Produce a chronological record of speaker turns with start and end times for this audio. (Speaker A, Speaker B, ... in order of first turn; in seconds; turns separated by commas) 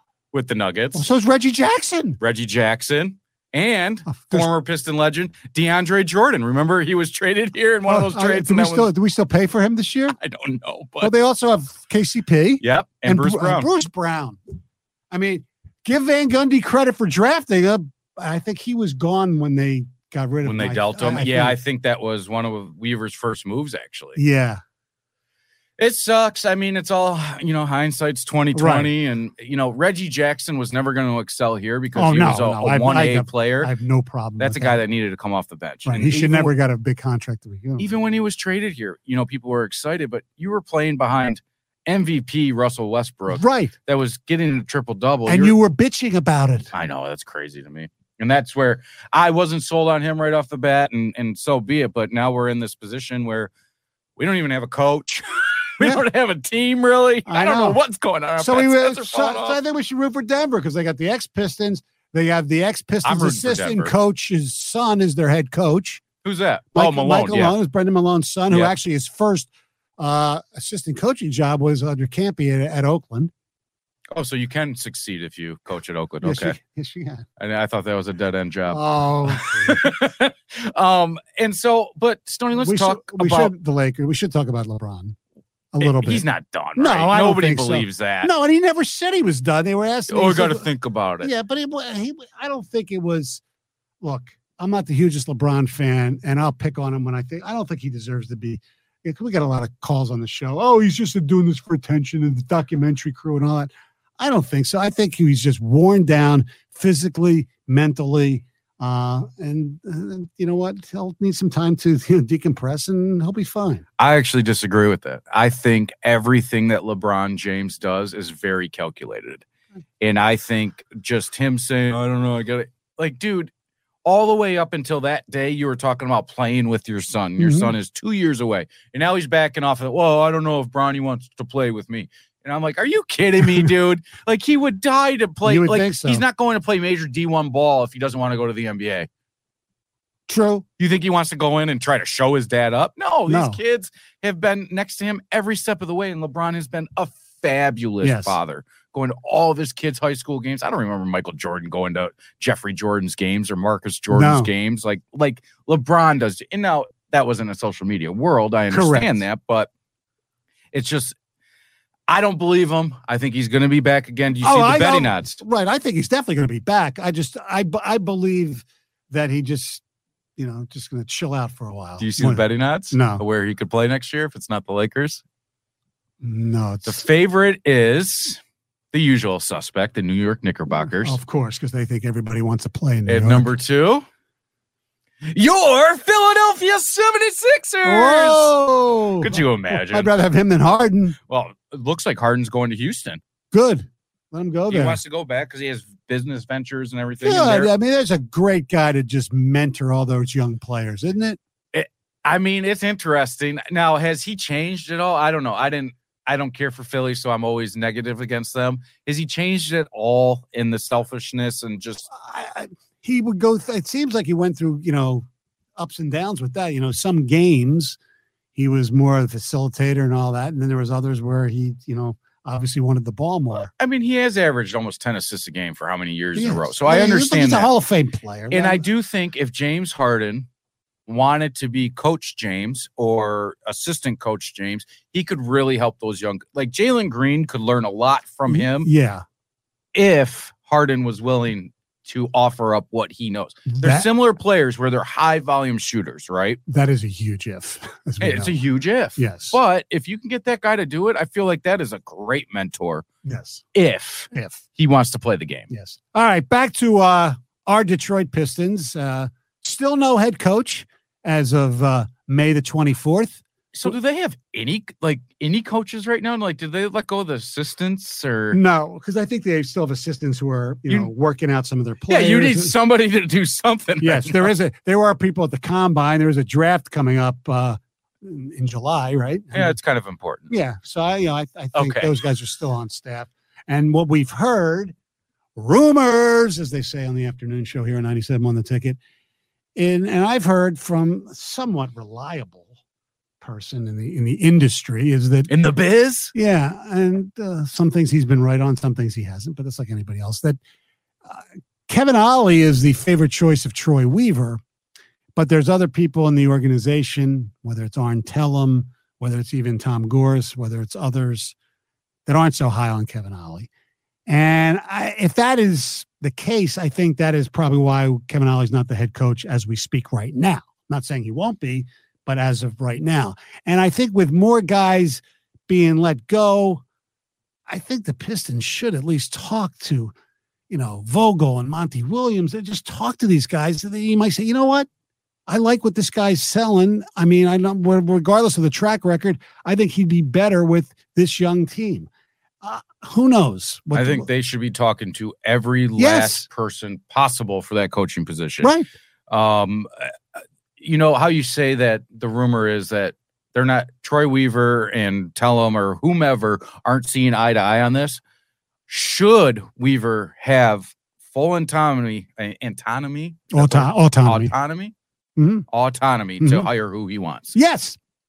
Speaker A: 0.3-0.9, Speaker B: 0.9-2.2, Speaker A: 2.2-8.9, Speaker B: 4.1-4.5, Speaker B: 7.9-10.2, Speaker A: 10.2-11.1, Speaker B: 11.0-14.4, Speaker A: 12.6-13.7, Speaker B: 15.1-21.6, Speaker A: 20.5-24.2, Speaker B: 24.2-24.6, Speaker A: 25.8-33.7, Speaker B: 28.5-28.9, Speaker B: 31.9-34.8, Speaker A: 34.4-36.5, Speaker B: 35.9-38.0, Speaker A: 37.8-45.5, Speaker B: 43.3-43.7, Speaker B: 45.3-46.7, Speaker A: 46.8-53.5, Speaker A: 54.2-59.5, Speaker B: 55.8-56.1, Speaker B: 57.3-57.8, Speaker B: 58.4-66.0, Speaker A: 63.0-63.9, Speaker A: 66.2-67.5, Speaker B: 66.7-73.3, Speaker A: 74.1-76.5, Speaker B: 76.2-77.2, Speaker A: 77.4-78.8, Speaker B: 78.7-79.9, Speaker A: 79.5-83.5, Speaker B: 82.5-85.2, Speaker B: 85.7-90.7, Speaker A: 86.0-88.3, Speaker A: 90.4-91.3, Speaker B: 91.2-93.4, Speaker B: 94.0-113.8, Speaker A: 114.0-119.4, Speaker A: 120.0-123.5, Speaker A: 124.0-139.1, Speaker B: 127.4-127.8, Speaker B: 133.4-133.7, Speaker B: 135.4-136.2, Speaker B: 140.3-140.7, Speaker A: 140.8-159.7, Speaker B: 143.2-143.6, Speaker B: 148.0-148.4, Speaker B: 154.1-154.5, Speaker B: 158.7-159.2, Speaker A: 160.7-161.2, Speaker A: 162.1-165.4, Speaker B: 164.4-169.8, Speaker B: 170.4-173.2, Speaker A: 172.1-175.2, Speaker B: 176.2-177.0, Speaker A: 176.9-178.4, Speaker A: 178.9-181.2, Speaker B: 180.7-183.5, Speaker A: 183.4-184.0, Speaker A: 185.3-188.5, Speaker B: 187.8-191.2, Speaker A: 189.2-190.1, Speaker A: 191.3-193.2, Speaker B: 193.5-195.0, Speaker A: 194.7-197.7, Speaker B: 197.2-201.4, Speaker A: 201.8-212.0, Speaker B: 212.1-218.0, Speaker B: 218.6-223.7, Speaker A: 223.8-227.7, Speaker B: 226.3-228.9, Speaker A: 228.6-230.4, Speaker A: 231.1-238.9, Speaker B: 238.5-239.2, Speaker A: 239.9-246.6, Speaker B: 243.7-244.1, Speaker B: 246.7-248.6, Speaker A: 248.4-253.0, Speaker B: 249.2-249.6, Speaker B: 253.2-253.6, Speaker A: 253.8-255.7, Speaker B: 254.3-254.6, Speaker B: 255.7-263.9, Speaker A: 263.7-268.5, Speaker B: 268.5-272.8, Speaker A: 272.2-274.5, Speaker B: 274.0-279.8, Speaker A: 279.7-280.4, Speaker B: 280.5-284.9, Speaker B: 285.6-289.0, Speaker B: 289.8-292.7, Speaker B: 293.4-295.5, Speaker A: 295.7-296.3, Speaker B: 296.3-300.6, Speaker B: 301.3-304.6, Speaker B: 305.4-311.6, Speaker B: 312.3-313.7, Speaker B: 314.3-326.8, Speaker B: 327.7-330.1, Speaker B: 330.7-334.9, Speaker B: 335.5-342.1, Speaker B: 342.6-344.3, Speaker A: 344.1-348.7, Speaker B: 346.0-346.5, Speaker B: 348.6-348.9, Speaker A: 349.3-350.1, Speaker A: 350.8-358.2, Speaker A: 358.9-363.9, Speaker B: 363.5-364.5, Speaker A: 364.4-364.9, Speaker B: 365.4-365.6, Speaker A: 365.7-367.5, Speaker B: 366.4-366.7, Speaker B: 367.5-368.0